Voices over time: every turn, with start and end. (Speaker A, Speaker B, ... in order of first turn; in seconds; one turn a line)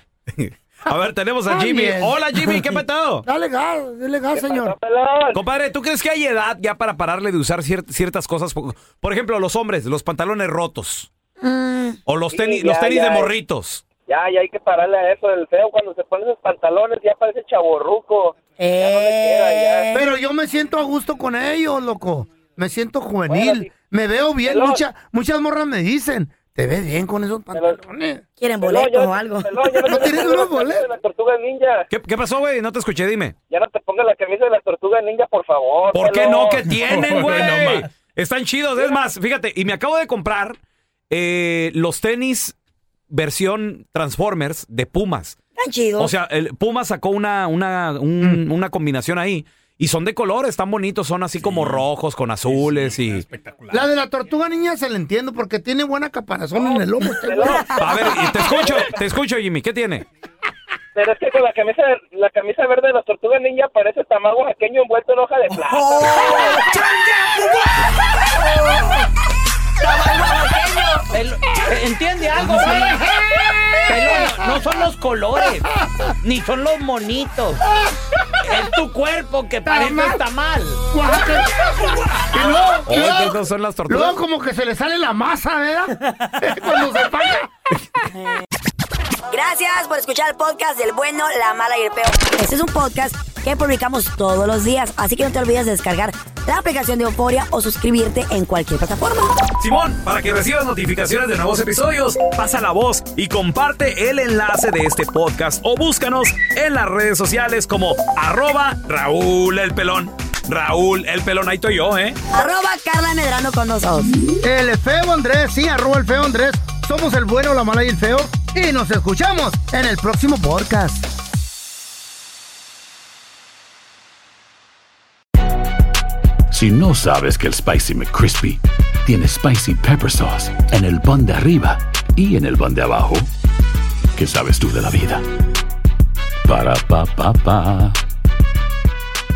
Speaker A: 0.3-3.3
Speaker B: 1.5-2.7
Speaker B: 3.2-4.7
Speaker C: 4.3-5.4
Speaker A: 5.3-11.1
Speaker D: 11.4-12.0
Speaker A: 12.1-13.8
Speaker C: 12.3-13.3
Speaker C: 14.1-19.9
Speaker D: 18.6-20.1
Speaker B: 19.9-28.2
Speaker C: 23.3-23.8
Speaker C: 24.5-24.8
Speaker C: 27.5-27.8
Speaker D: 28.4-30.1
Speaker C: 28.6-31.9
Speaker B: 29.8-30.9
Speaker A: 31.9-33.4
Speaker C: 33.5-36.8
Speaker A: 35.9-40.6
Speaker A: 41.1-42.5
Speaker A: 43.1-45.4
Speaker D: 45.6-46.1
Speaker A: 46.0-53.3
Speaker B: 53.7-57.8
Speaker C: 56.6-57.6
Speaker D: 57.4-58.1
Speaker A: 57.7-60.1
Speaker C: 61.0-66.3
Speaker D: 65.6-66.7
Speaker D: 69.8-71.1
Speaker E: 71.1-72.9
Speaker D: 72.5-72.8
Speaker E: 73.9-75.6
Speaker E: 76.2-77.6
Speaker E: 78.5-80.8
Speaker B: 79.7-80.2
Speaker B: 80.9-81.5
Speaker B: 82.3-87.5
Speaker A: 82.8-84.2
Speaker D: 89.3-99.4
Speaker A: 99.6-112.2
Speaker D: 112.3-114.1
Speaker B: 114.4-121.1
Speaker F: 126.5-133.3
Speaker F: 134.2-135.2
Speaker F: 136.4-138.0